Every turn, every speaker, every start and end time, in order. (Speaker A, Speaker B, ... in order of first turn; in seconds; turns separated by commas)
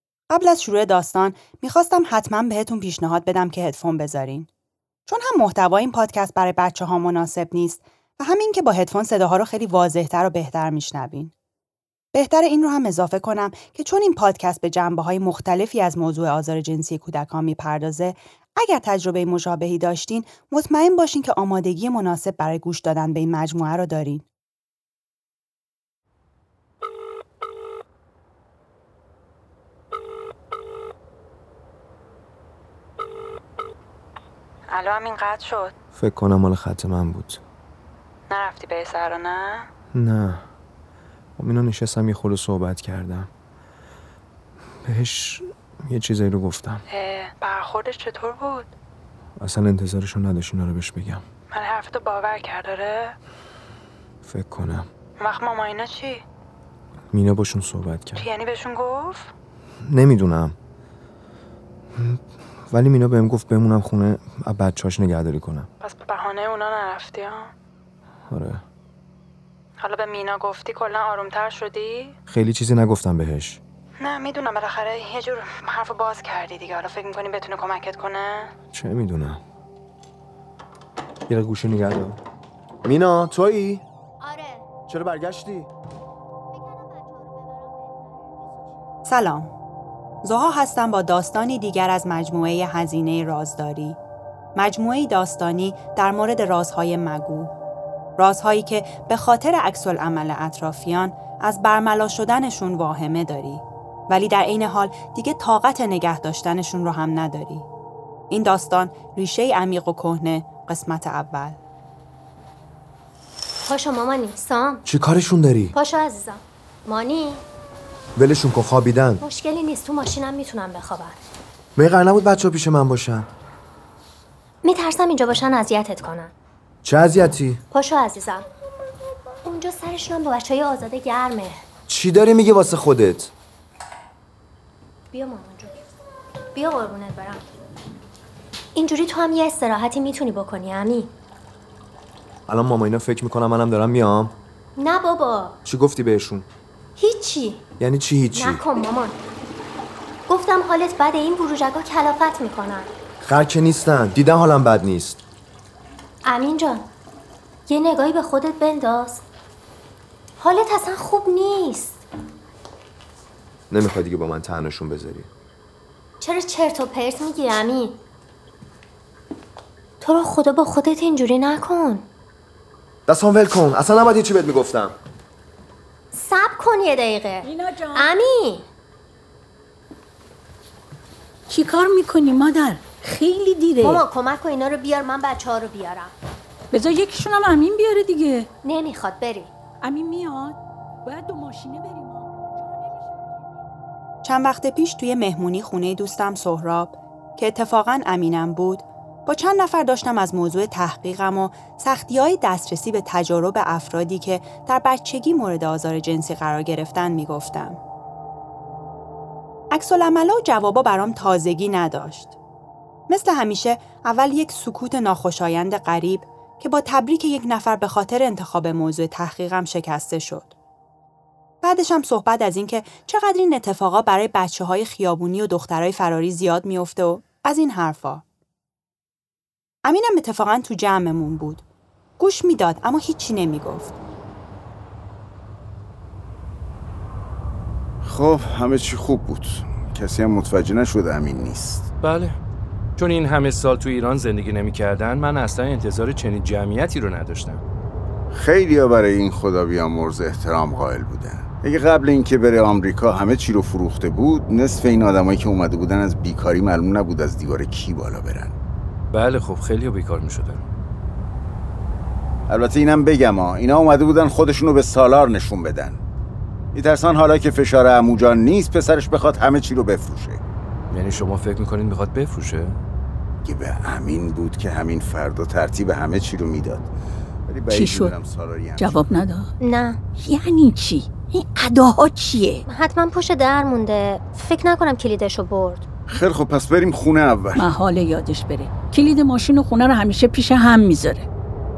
Speaker A: 0.3-4.5, Speaker A: 5.1-11.3, Speaker A: 12.1-24.3, Speaker B: 34.7-35.7, Speaker C: 35.9-37.4, Speaker B: 38.3-39.7, Speaker C: 39.9-40.4, Speaker C: 41.4-43.3, Speaker C: 44.9-46.8, Speaker B: 47.0-48.7, Speaker C: 49.4-51.2, Speaker B: 51.5-53.1, Speaker C: 54.2-54.9, Speaker B: 55.2-56.2, Speaker C: 57.1-58.3, Speaker B: 58.1-59.3, Speaker C: 59.8-60.6, Speaker C: 62.0-65.7, Speaker B: 65.8-67.5, Speaker C: 68.3-68.6, Speaker B: 69.8-72.1, Speaker C: 72.3-73.6, Speaker B: 74.0-78.5, Speaker C: 78.7-79.4, Speaker C: 81.3-82.2, Speaker C: 82.8-83.8, Speaker D: 84.2-84.7, Speaker C: 84.9-85.7, Speaker D: 86.5-88.3, Speaker A: 89.0-89.5, Speaker A: 90.2-94.0, Speaker A: 94.6-97.5, Speaker A: 98.2-107.7, Speaker A: 108.3-111.6, Speaker D: 113.7-114.8, Speaker C: 114.9-115.8, Speaker D: 115.8-117.4, Speaker C: 118.2-119.2, Speaker D: 119.2-121.2, Speaker C: 121.8-123.3, Speaker D: 124.6-126.3, Speaker C: 126.8-127.6, Speaker D: 127.7-128.5, Speaker D: 129.4-131.6, Speaker C: 131.9-133.3, Speaker D: 135.1-135.8, Speaker D: 136.6-137.4, Speaker D: 138.8-141.1, Speaker C: 142.5-144.4, Speaker D: 144.8-145.6, Speaker C: 145.7-146.5, Speaker D: 147.0-147.7, Speaker C: 147.8-148.7, Speaker D: 148.3-149.2, Speaker D: 150.3-152.9, Speaker C: 153.2-155.2, Speaker D: 156.2-156.9, Speaker D: 157.7-159.2, Speaker D: 160.4-162.0, Speaker C: 163.7-165.3, Speaker D: 166.2-168.0, Speaker D: 170.0-172.1, Speaker C: 173.1-174.9, Speaker D: 176.1-178.7, Speaker E: 177.4-178.1, Speaker E: 181.5-184.1, Speaker D: 183.8-186.1, Speaker E: 186.7-188.5, Speaker D: 188.6-189.5, Speaker E: 189.8-193.3, Speaker A: 194.2-207.8, Speaker A: 209.7-212.4, Speaker A: 213.1-220.5, Speaker A: 221.6-228.2, Speaker A: 229.8-231.6, Speaker A: 232.2-234.0, Speaker F: 238.1-241.8, Speaker G: 242.0-242.4, Speaker G: 243.0-247.6, Speaker F: 248.4-249.6, Speaker F: 250.4-258.5, Speaker G: 259.1-260.6, Speaker F: 262.5-265.9, Speaker F: 266.8-270.4, Speaker G: 270.9-272.8, Speaker F: 273.4-276.8, Speaker E: 277.7-278.2, Speaker F: 278.3-278.6, Speaker E: 278.8-279.5, Speaker D: 279.6-280.0, Speaker E: 280.2-282.6, Speaker D: 282.7-285.9, Speaker F: 286.2-287.4, Speaker E: 287.6-291.3